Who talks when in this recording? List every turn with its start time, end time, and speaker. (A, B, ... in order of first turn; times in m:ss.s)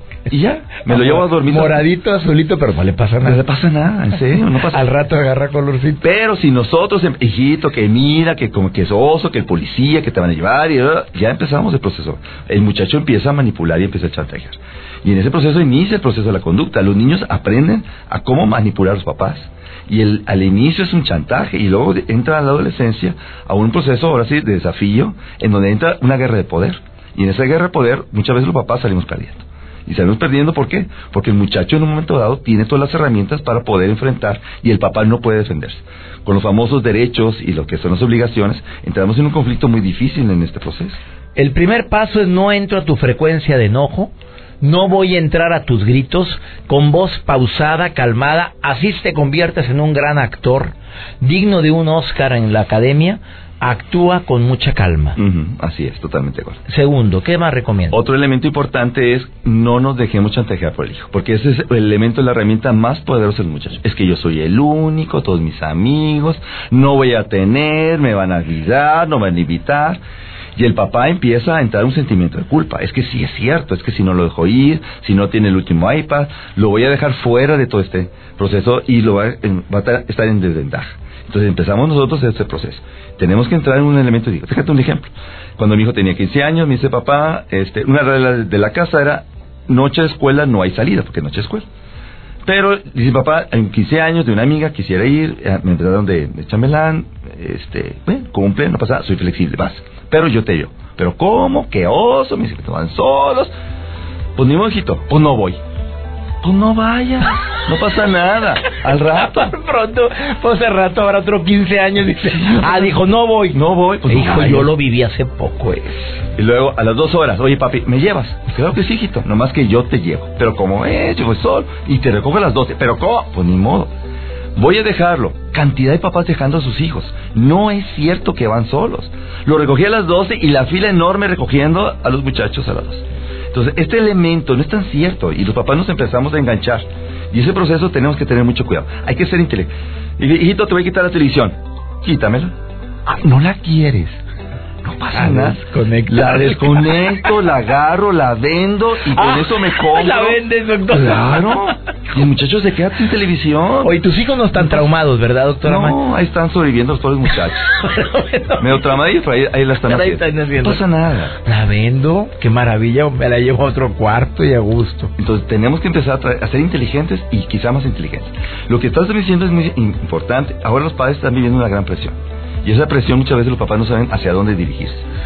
0:00.3-0:01.8 A
0:00.9-0:03.4 B
0:03.2-0:04.8 A
0:04.6-0:06.0 B
0:06.0-0:41.0 A
0:41.4-0:55.2 B
0:55.2-0:56.6 A
0:56.7-0:58.0 B
0:57.9-1:10.0 A
1:10.6-1:31.7 A
1:32.4-1:43.5 A
1:44.4-1:45.6 A
1:46.4-1:49.4 A
1:49.1-1:56.2 B
1:52.4-1:53.0 A
1:53.5-1:54.7 A
1:56.4-2:03.9 A
2:04.6-2:22.6 A
2:23.1-2:24.2 A
2:24.8-2:34.0 A
2:25.1-2:27.3 B
2:29.1-2:31.8 B
2:33.8-2:36.0 B
2:34.6-2:34.9 A
2:35.6-2:37.7 A
2:37.7-2:39.0 B
2:38.6-2:41.4 A
2:39.8-2:40.8 B
2:41.4-2:45.1 B
2:45.2-2:55.1 A